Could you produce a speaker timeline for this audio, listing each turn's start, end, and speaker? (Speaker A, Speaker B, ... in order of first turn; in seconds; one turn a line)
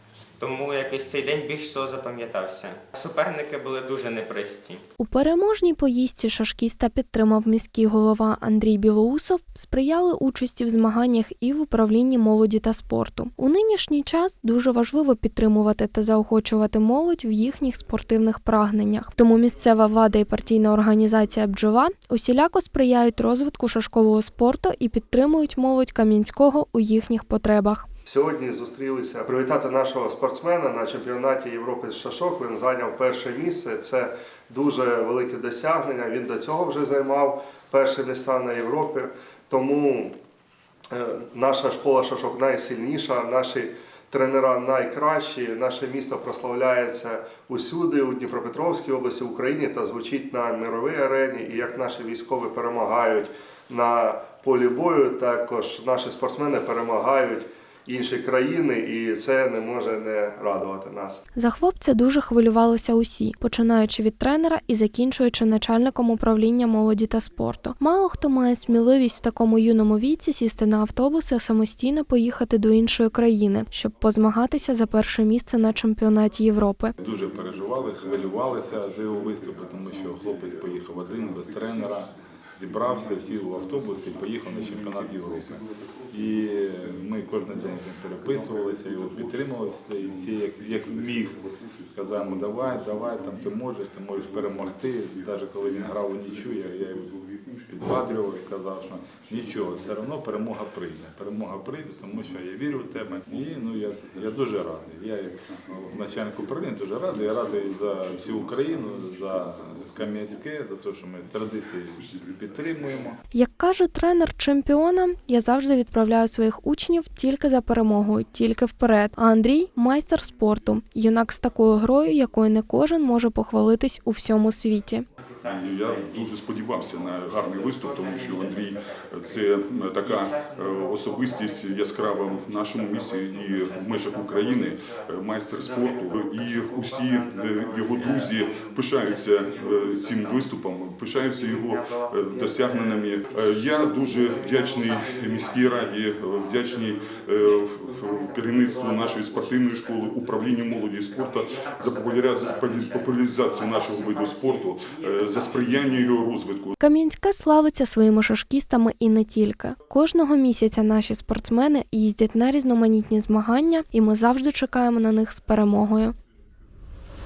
Speaker A: 0.4-4.8
Speaker B: 5.0-27.9
Speaker C: 28.1-40.1
Speaker C: 40.9-61.2
Speaker B: 61.3-76.9
Speaker D: 77.0-91.4
Speaker D: 91.9-97.2
Speaker D: 97.7-113.2
Speaker B: 113.3-125.0
Speaker A: 125.2-126.3
Speaker E: 125.5-128.7
Speaker A: 127.4-129.6
Speaker E: 129.4-135.7
Speaker A: 130.1-140.6
Speaker E: 136.3-156.6
Speaker A: 141.2-149.8
Speaker A: 150.5-156.2
Speaker B: 156.8-166.1